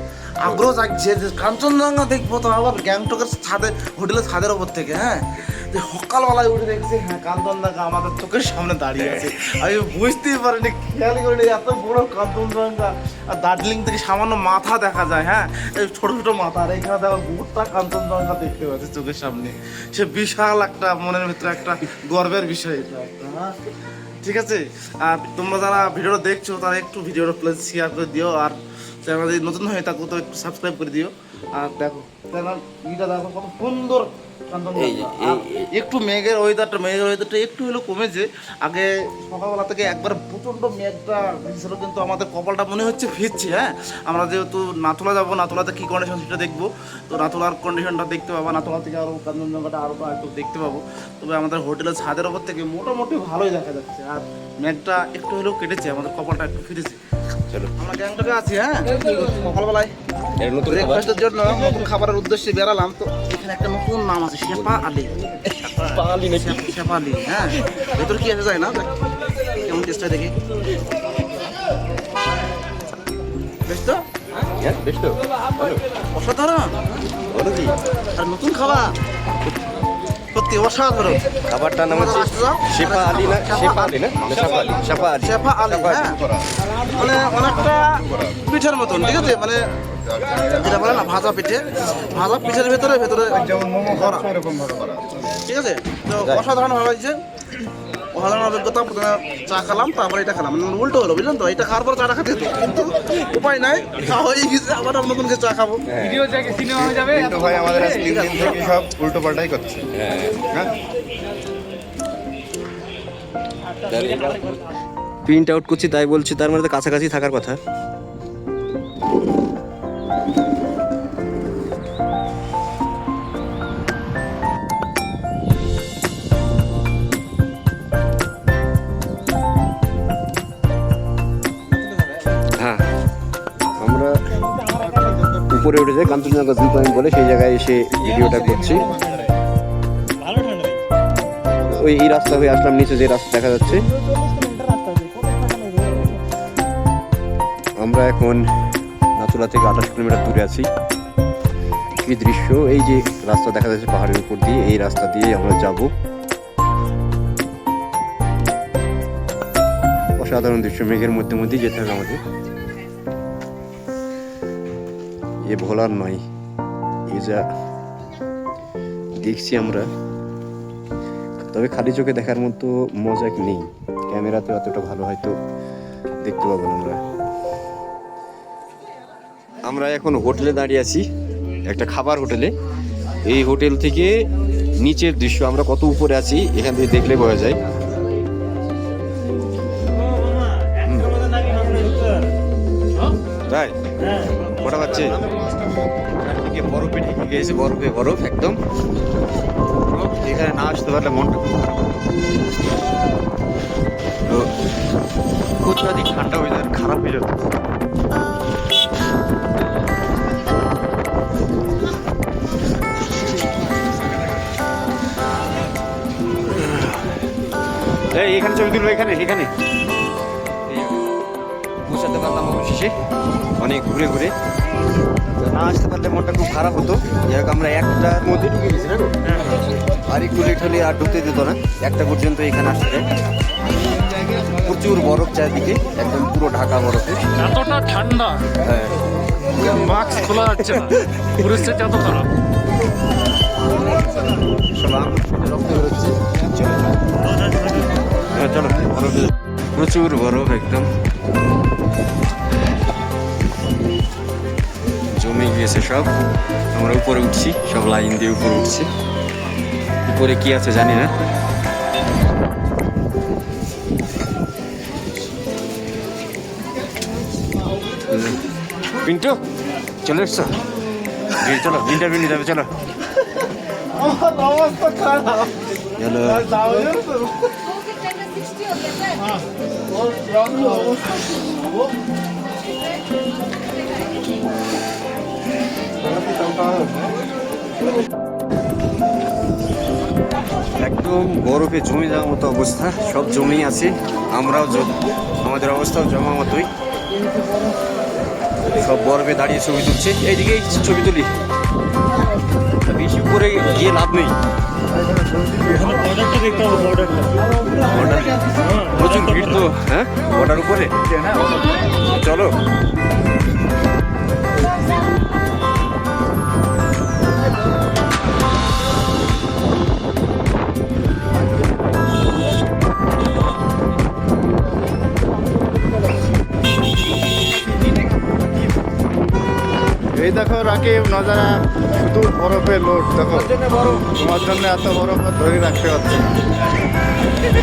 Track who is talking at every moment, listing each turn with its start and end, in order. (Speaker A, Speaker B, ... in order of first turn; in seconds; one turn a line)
Speaker A: 0.4-23.6
Speaker B: 9.0-9.3
Speaker A: 24.2-57.0
Speaker B: 34.8-35.5
Speaker A: 57.8-59.9
Speaker B: 60.4-61.1
Speaker A: 60.7-65.2
Speaker B: 65.4-66.7
Speaker A: 66.3-68.9
Speaker A: 69.6-70.3
Speaker A: 73.7-74.0
Speaker B: 74.5-75.8
Speaker A: 76.2-76.7
Speaker B: 77.3-77.8
Speaker A: 78.2-79.0
Speaker A: 80.3-81.2
Speaker B: 81.5-86.2
Speaker A: 81.9-86.2
Speaker A: 86.9-89.6
Speaker A: 90.4-94.3
Speaker C: 93.7-95.0
Speaker A: 95.5-97.2
Speaker A: 98.1-105.8
Speaker B: 105.9-106.5
Speaker D: 106.2-107.9
Speaker A: 107.4-108.8
Speaker C: 107.5-108.3
Speaker C: 109.0-109.8
Speaker B: 109.9-110.6
Speaker B: 113.9-114.6
Speaker B: 115.2-117.6
Speaker B: 132.6-132.8
Speaker B: 133.7-134.2
Speaker B: 135.5-138.9
Speaker B: 141.7-143.8
Speaker C: 145.1-145.5
Speaker B: 147.8-148.5
Speaker B: 149.2-150.7
Speaker B: 152.0-155.9
Speaker B: 160.2-162.2
Speaker B: 165.4-166.2
Speaker B: 167.1-167.4
Speaker B: 169.2-169.9
Speaker B: 171.4-175.4
Speaker B: 176.2-177.0
Speaker B: 179.7-181.1
Speaker B: 181.7-182.5
Speaker B: 183.3-184.1
Speaker B: 184.8-187.6
Speaker B: 190.8-191.1
Speaker B: 193.5-193.8
Speaker B: 194.5-195.3
Speaker B: 196.2-198.6
Speaker B: 199.9-201.6
Speaker B: 205.6-207.4
Speaker B: 216.5-217.1
Speaker B: 218.1-219.5
Speaker B: 220.7-221.1
Speaker B: 221.8-222.9
Speaker B: 223.6-224.3
Speaker B: 225.4-229.1
Speaker B: 230.1-233.1
Speaker B: 234.4-237.2
Speaker D: 237.4-238.5
Speaker B: 238.6-239.0
Speaker D: 239.6-242.3
Speaker B: 240.4-241.3
Speaker B: 244.7-246.2
Speaker B: 248.3-250.9
Speaker B: 255.1-256.1
Speaker B: 256.7-258.9
Speaker B: 260.1-261.1
Speaker B: 268.1-268.4
Speaker B: 269.0-269.4
Speaker B: 270.0-270.6
Speaker B: 271.4-272.7
Speaker A: 273.8-278.2
Speaker B: 276.0-276.7
Speaker A: 278.9-281.9
Speaker B: 286.2-286.9
Speaker B: 290.8-296.7
Speaker B: 298.7-301.3
Speaker B: 302.8-304.3
Speaker C: 305.0-307.3
Speaker A: 305.8-306.2
Speaker A: 306.9-309.4
Speaker B: 307.9-308.3
Speaker C: 308.0-308.3
Speaker B: 308.9-310.9
Speaker C: 311.1-311.6
Speaker B: 312.0-312.6
Speaker C: 330.2-333.5
Speaker B: 333.3-334.3
Speaker C: 334.2-336.2